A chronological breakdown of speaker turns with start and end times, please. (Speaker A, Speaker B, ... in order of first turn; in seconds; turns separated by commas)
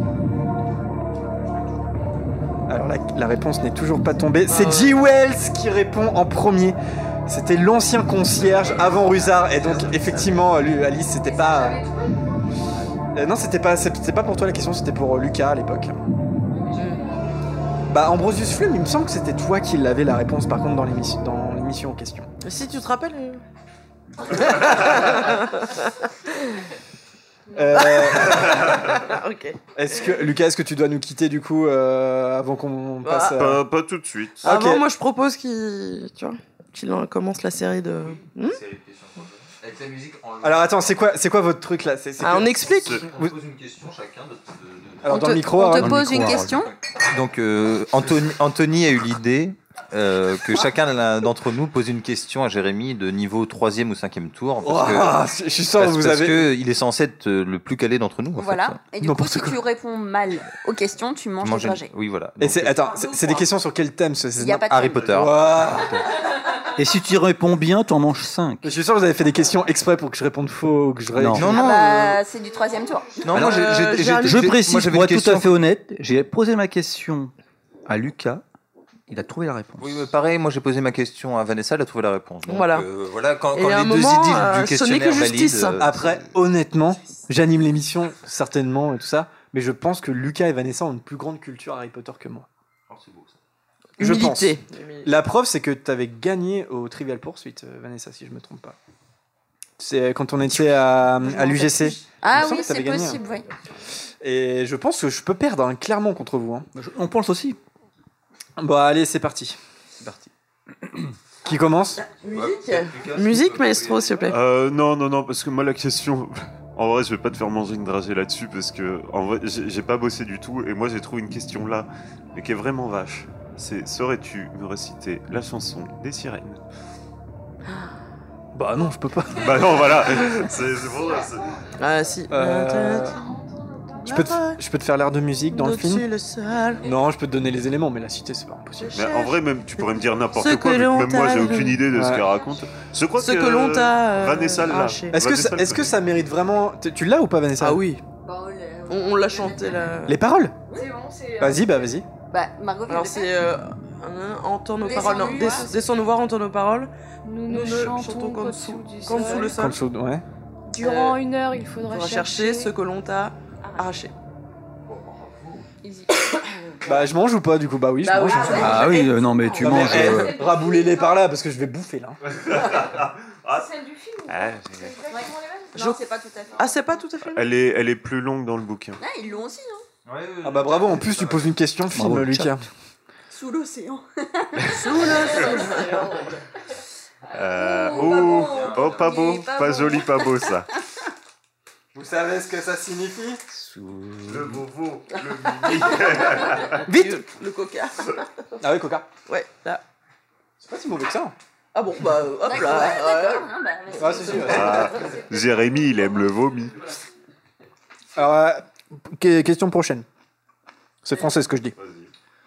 Speaker A: 2.7-11.8, Speaker B: 4.5-4.9, Speaker C: 8.6-10.3, Speaker D: 11.3-12.1, Speaker A: 13.1-16.0, Speaker D: 16.6-17.4, Speaker B: 16.7-17.0, Speaker A: 17.9-22.3, Speaker B: 22.4-23.4, Speaker B: 24.3-26.5, Speaker D: 27.5-27.9, Speaker A: 27.5-29.0, Speaker B: 27.7-29.6, Speaker A: 29.8-33.6, Speaker B: 33.0-33.4, Speaker E: 33.3-34.4, Speaker B: 34.4-38.6, Speaker A: 34.4-34.8, Speaker C: 38.2-40.9, Speaker A: 40.4-43.3, Speaker B: 42.2-43.0, Speaker C: 43.0-45.1, Speaker A: 45.0-46.3, Speaker F: 45.0-46.7, Speaker G: 45.7-46.6, Speaker C: 46.6-55.2, Speaker A: 54.6-56.5, Speaker C: 55.8-58.8, Speaker F: 58.4-61.9, Speaker A: 59.0-59.6, Speaker C: 61.4-62.8, Speaker A: 62.4-66.0, Speaker F: 64.3-65.2, Speaker C: 64.7-66.0, Speaker G: 66.7-68.7, Speaker A: 68.6-71.6, Speaker G: 71.1-71.7, Speaker C: 71.3-72.2, Speaker F: 71.5-73.2, Speaker C: 73.2-75.5, Speaker G: 73.3-77.3, Speaker B: 73.3-74.4, Speaker G: 77.8-78.4, Speaker G: 79.1-80.0, Speaker C: 79.8-86.1, Speaker B: 82.5-82.9, Speaker B: 83.5-85.8, Speaker A: 85.8-92.5, Speaker C: 92.9-93.3, Speaker B: 94.0-95.1, Speaker A: 94.0-98.8, Speaker A: 99.8-103.2, Speaker B: 101.3-102.0, Speaker F: 102.2-103.4, Speaker A: 104.2-106.7, Speaker G: 106.7-107.6, Speaker A: 108.6-109.6, Speaker G: 110.0-110.3, Speaker A: 111.4-112.0, Speaker B: 112.0-114.4, Speaker C: 112.3-114.3, Speaker E: 114.3-126.6, Speaker B: 127.7-127.9, Speaker A: 128.5-130.4, Speaker E: 129.3-131.6, Speaker B: 131.8-133.2, Speaker A: 132.3-133.2, Speaker D: 133.0-134.2, Speaker B: 134.0-134.6, Speaker A: 134.1-136.0, Speaker B: 135.5-136.8, Speaker A: 136.8-139.0, Speaker B: 138.8-141.8, Speaker E: 138.9-146.0, Speaker A: 141.9-142.3, Speaker B: 143.2-145.2, Speaker A: 145.1-147.8, Speaker B: 147.6-148.0, Speaker F: 148.2-149.9, Speaker B: 148.9-150.2, Speaker A: 150.1-150.6, Speaker D: 150.7-151.8, Speaker A: 151.4-152.1, Speaker F: 152.3-153.3, Speaker B: 152.9-156.9, Speaker F: 154.8-155.7, Speaker D: 154.9-155.8, Speaker D: 157.2-159.6, Speaker B: 157.5-159.8, Speaker A: 159.3-160.2, Speaker D: 160.7-162.7, Speaker B: 160.8-161.2, Speaker B: 161.9-164.1, Speaker F: 163.6-163.9, Speaker C: 164.8-165.7, Speaker D: 165.8-166.3, Speaker A: 166.8-168.9, Speaker D: 168.1-168.6, Speaker B: 168.2-170.2, Speaker F: 168.3-169.1, Speaker G: 168.4-170.4, Speaker A: 169.5-172.2, Speaker D: 170.1-171.1, Speaker E: 172.5-173.7, Speaker D: 173.5-175.7, Speaker E: 174.3-175.1, Speaker F: 175.1-176.9, Speaker B: 175.7-176.0, Speaker B: 176.6-177.5, Speaker E: 177.2-179.0, Speaker F: 179.0-179.8, Speaker C: 180.0-181.5, Speaker A: 180.4-182.7, Speaker G: 181.9-182.6, Speaker F: 183.3-185.5, Speaker B: 184.6-186.1, Speaker E: 187.3-190.7, Speaker F: 187.4-190.3, Speaker C: 188.3-189.1, Speaker A: 191.9-193.4, Speaker G: 193.5-194.6, Speaker E: 194.3-196.8, Speaker B: 195.2-198.2, Speaker A: 196.9-197.2, Speaker A: 198.6-199.1, Speaker B: 199.3-199.8, Speaker A: 200.6-201.3, Speaker B: 201.7-204.9, Speaker F: 202.4-205.1, Speaker A: 204.0-204.9, Speaker E: 204.4-206.8, Speaker A: 208.1-210.1, Speaker A: 211.0-211.7, Speaker E: 211.8-212.1